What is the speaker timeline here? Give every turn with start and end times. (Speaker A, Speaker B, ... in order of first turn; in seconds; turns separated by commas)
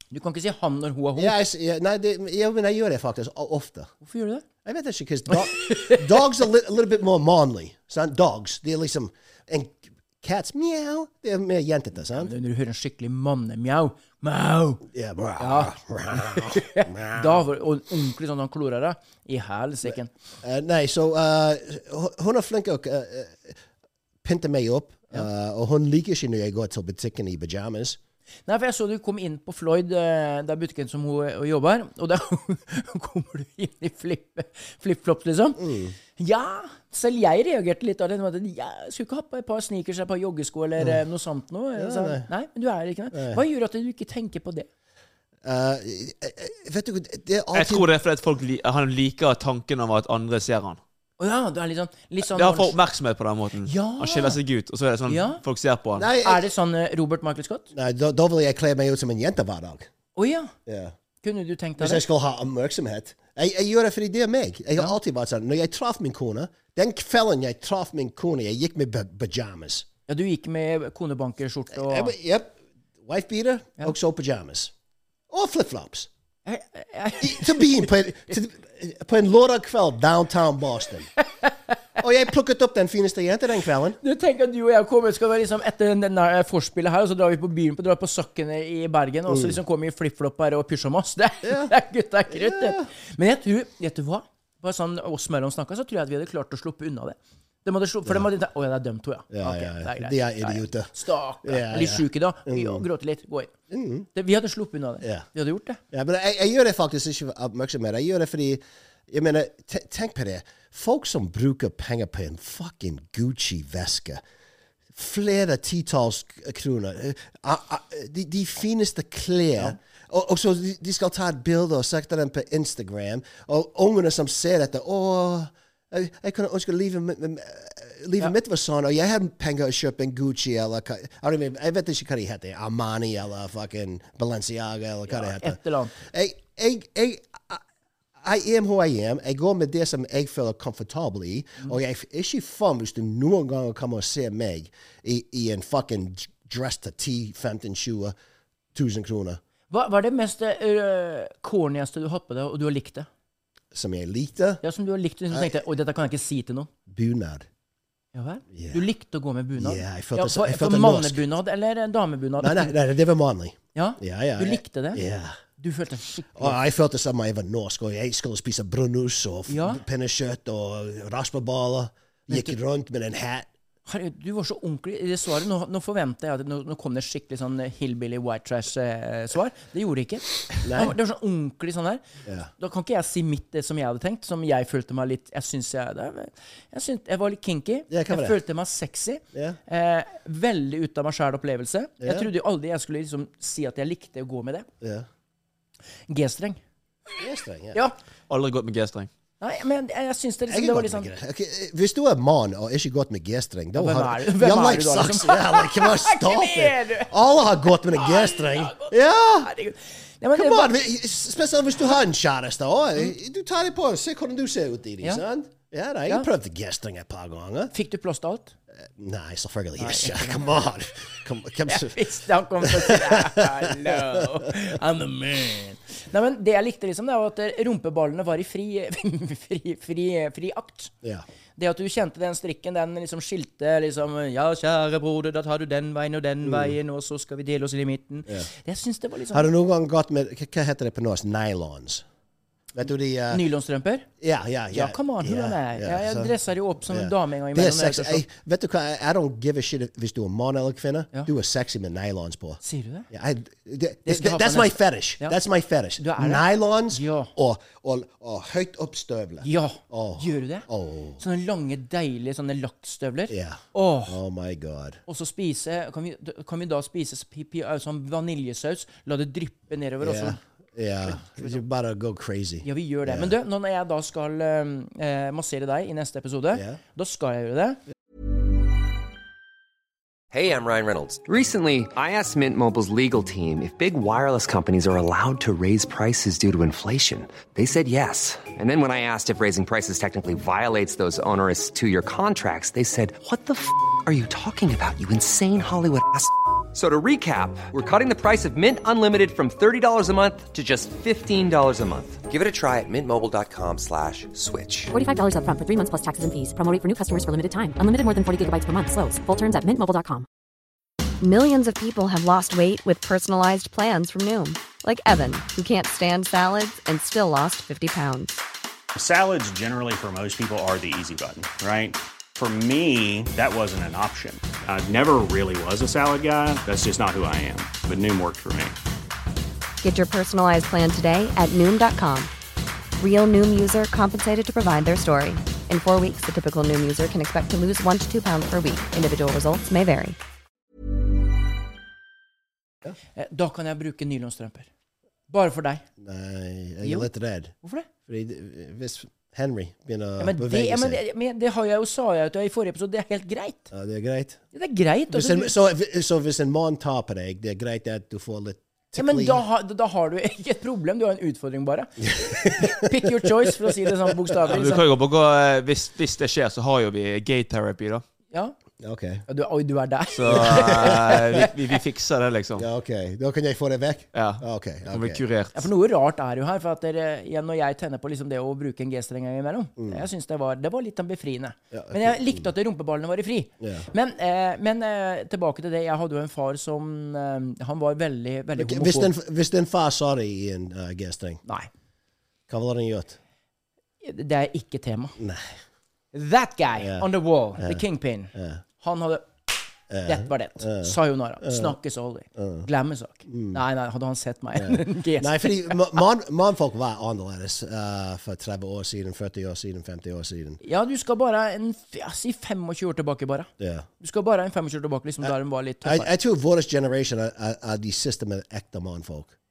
Speaker A: 0.1-1.4, Speaker B: 1.1-3.9, Speaker A: 4.0-4.4, Speaker B: 4.6-12.3, Speaker A: 5.3-6.2, Speaker A: 12.2-14.8, Speaker B: 14.9-17.4, Speaker A: 15.4-20.1, Speaker B: 20.4-23.6, Speaker B: 24.2-28.0, Speaker A: 28.5-44.7, Speaker B: 35.6-35.9, Speaker B: 41.8-42.3, Speaker B: 43.1-43.4, Speaker B: 45.4-47.9, Speaker C: 47.5-50.8, Speaker A: 51.2-52.7, Speaker C: 52.3-56.0, Speaker A: 53.6-54.4, Speaker A: 55.0-55.4, Speaker B: 56.0-56.5, Speaker A: 56.2-57.7, Speaker B: 57.7-59.9, Speaker A: 60.1-60.5, Speaker B: 60.6-60.9, Speaker A: 61.2-62.0, Speaker B: 61.8-69.8, Speaker A: 70.1-72.1, Speaker B: 71.7-74.7, Speaker B: 75.3-76.1, Speaker A: 76.5-77.9, Speaker B: 77.2-81.1, Speaker B: 82.0-84.0, Speaker A: 84.0-103.5, Speaker B: 89.3-89.6, Speaker B: 91.4-91.7, Speaker B: 92.3-92.9, Speaker B: 99.3-100.9, Speaker B: 101.4-102.8, Speaker B: 103.7-104.1, Speaker A: 104.1-105.8, Speaker B: 105.9-114.2, Speaker B: 114.9-137.6, Speaker A: 135.1-136.0, Speaker B: 138.2-148.1, Speaker B: 148.7-149.4, Speaker A: 149.7-153.1, Speaker B: 153.7-154.6, Speaker A: 154.6-156.7, Speaker B: 156.9-157.4, Speaker A: 158.1-162.7, Speaker B: 158.5-158.8, Speaker B: 159.6-161.2, Speaker B: 162.4-165.3, Speaker A: 163.7-165.0, Speaker A: 165.6-166.6, Speaker B: 166.3-173.5, Speaker A: 169.5-169.8, Speaker A: 172.3-172.5, Speaker A: 173.8-182.0, Speaker B: 180.6-180.9, Speaker B: 182.2-182.5, Speaker A: 182.6-194.7, Speaker B: 187.9-188.4, Speaker B: 192.0-192.3, Speaker B: 194.8-195.1, Speaker A: 196.1-196.6, Speaker B: 197.2-197.8, Speaker C: 198.3-199.1, Speaker A: 199.4-201.1, Speaker B: 200.5-209.5, Speaker A: 203.7-207.1, Speaker A: 207.7-210.7, Speaker B: 210.3-217.7, Speaker A: 217.7-218.5, Speaker B: 218.8-222.0, Speaker A: 219.8-220.4, Speaker A: 221.7-230.9, Speaker B: 222.6-224.4, Speaker A: 231.6-239.5, Speaker B: 236.4-236.7, Speaker B: 239.3-242.0, Speaker B: 242.7-243.4, Speaker A: 243.3-244.1, Speaker B: 244.2-246.3, Speaker A: 244.7-248.2, Speaker B: 246.9-261.2, Speaker A: 252.6-253.1, Speaker A: 254.1-255.4, Speaker A: 256.0-257.3, Speaker A: 259.4-260.7, Speaker A: 261.2-264.2, Speaker B: 263.3-265.0, Speaker A: 265.1-270.4, Speaker B: 270.0-273.3, Speaker A: 271.0-271.6, Speaker A: 272.6-277.8, Speaker B: 276.5-276.8, Speaker D: 280.3-304.9, Speaker E: 304.9-310.2, Speaker F: 311.2-318.4, Speaker G: 318.9-328.8, Speaker F: 329.8-332.3, Speaker F: 333.0-340.2, Speaker A: 343.1-344.7, Speaker A: 345.3-345.8, Speaker B: 346.0-347.5, Speaker A: 346.8-347.1, Speaker A: 347.6-347.9, Speaker B: 348.1-351.0, Speaker A: 350.2-353.7, Speaker B: 353.7-354.4, Speaker A: 354.5-355.5, Speaker B: 355.1-359.4, Speaker A: 358.9-364.8, Speaker B: 362.0-364.3, Speaker C: 364.5-368.0, Speaker B: 368.8-369.2, Speaker A: 369.3-371.5, Speaker C: 370.1-372.6, Speaker B: 370.3-371.4, Speaker B: 372.6-375.2, Speaker C: 374.1-375.7, Speaker A: 375.5-389.1, Speaker B: 379.8-380.0, Speaker B: 381.7-382.4, Speaker B: 383.6-383.9, Speaker B: 388.6-391.4, Speaker B: 392.5-393.2, Speaker A: 394.0-395.2, Speaker B: 395.2-395.6, Speaker A: 396.1-399.3, Speaker B: 396.8-397.1, Speaker B: 398.3-398.6, Speaker B: 399.9-401.7, Speaker A: 400.0-405.8, Speaker B: 402.4-402.6, Speaker B: 403.3-403.6, Speaker B: 404.6-410.6, Speaker A: 410.6-416.1, Speaker B: 413.6-413.9, Speaker B: 415.2-419.3